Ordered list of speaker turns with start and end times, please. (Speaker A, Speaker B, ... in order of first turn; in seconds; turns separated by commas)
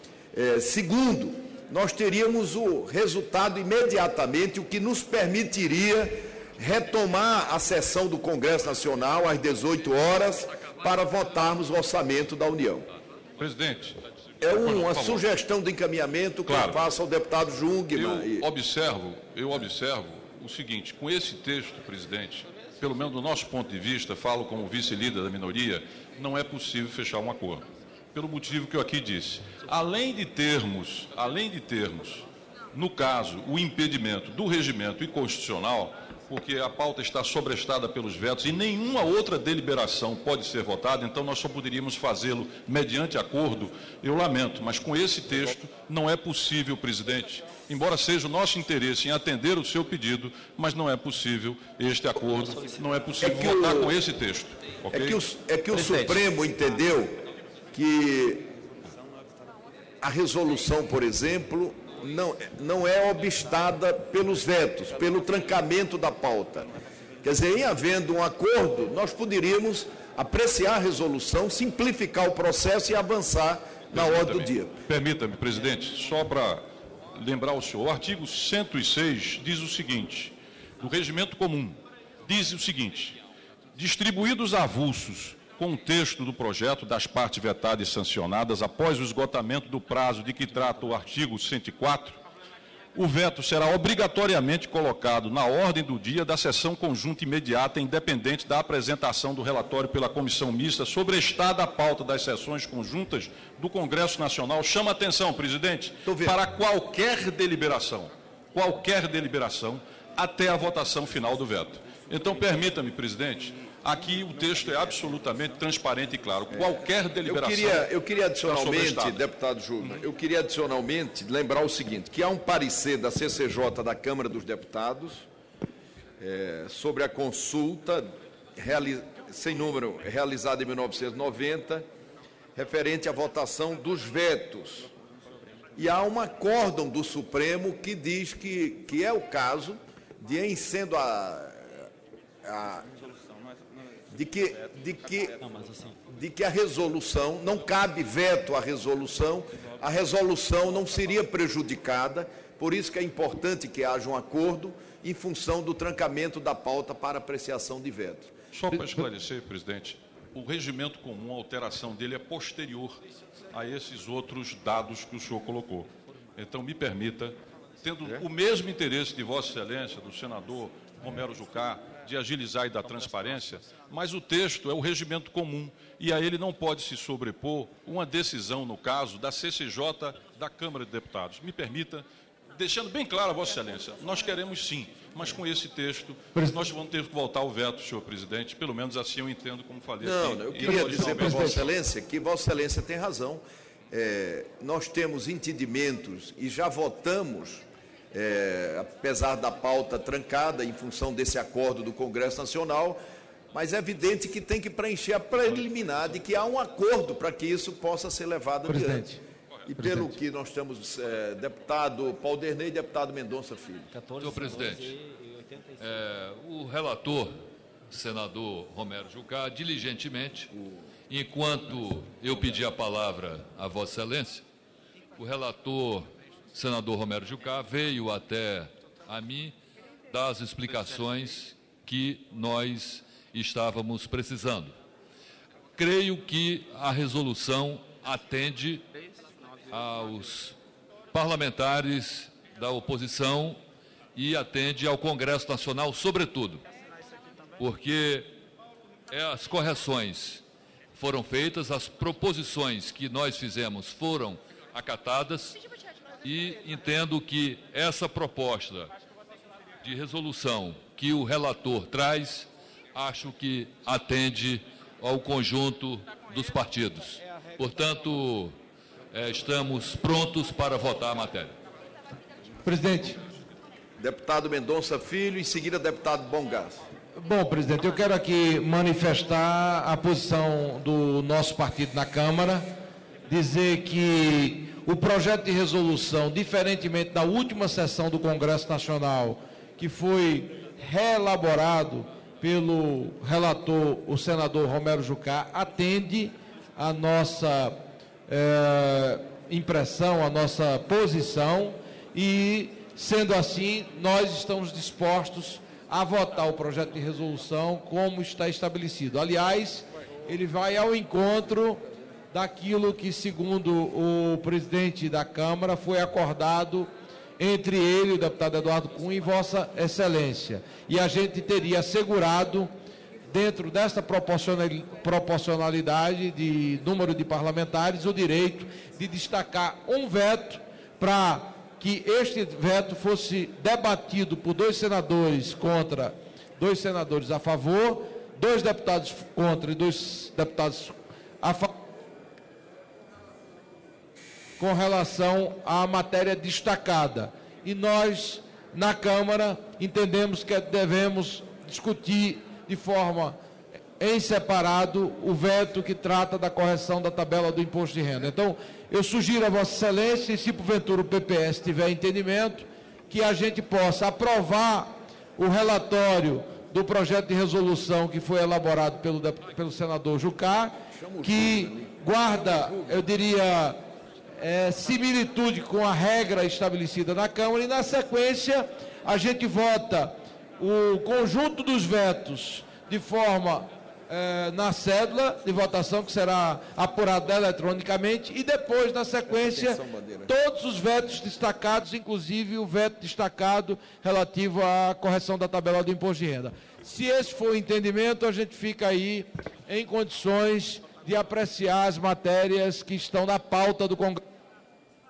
Speaker A: 0.3-12.9, Speaker B: 13.4-15.2, Speaker A: 14.4-18.5, Speaker B: 16.5-16.8, Speaker B: 17.9-55.2, Speaker A: 53.2-54.0, Speaker A: 54.9-57.2, Speaker B: 55.7-56.2, Speaker A: 57.7-58.5, Speaker A: 60.0-66.7, Speaker A: 67.2-74.8, Speaker B: 73.9-83.2, Speaker B: 83.7-92.2, Speaker B: 93.0-119.2, Speaker A: 106.0-106.4, Speaker A: 116.5-125.3, Speaker A: 126.2-131.9, Speaker A: 132.6-134.9, Speaker A: 135.8-141.8, Speaker A: 142.4-142.9, Speaker A: 144.1-145.4, Speaker A: 146.1-158.3, Speaker B: 158.5-163.0, Speaker B: 163.5-191.8, Speaker A: 190.0-203.0, Speaker C: 190.7-191.6, Speaker A: 203.5-209.1, Speaker C: 208.7-209.2, Speaker A: 209.7-213.9, Speaker C: 209.8-210.1, Speaker D: 214.2-214.9, Speaker D: 215.8-217.4, Speaker D: 217.9-220.5, Speaker D: 221.1-224.4, Speaker D: 225.2-229.6, Speaker D: 230.1-234.8, Speaker D: 235.8-238.8, Speaker D: 239.7-240.6, Speaker D: 241.1-243.6, Speaker D: 244.2-246.6, Speaker D: 247.6-248.3, Speaker D: 249.1-250.4, Speaker D: 250.9-255.6, Speaker D: 256.2-258.9, Speaker D: 259.8-268.6, Speaker D: 269.1-271.5, Speaker C: 272.6-273.2, Speaker A: 274.0-276.8, Speaker C: 277.2-282.7, Speaker C: 283.3-322.7, Speaker C: 323.3-341.7, Speaker C: 344.6-353.4, Speaker C: 354.0-373.8, Speaker A: 370.9-372.9, Speaker C: 374.4-404.2, Speaker A: 389.3-390.3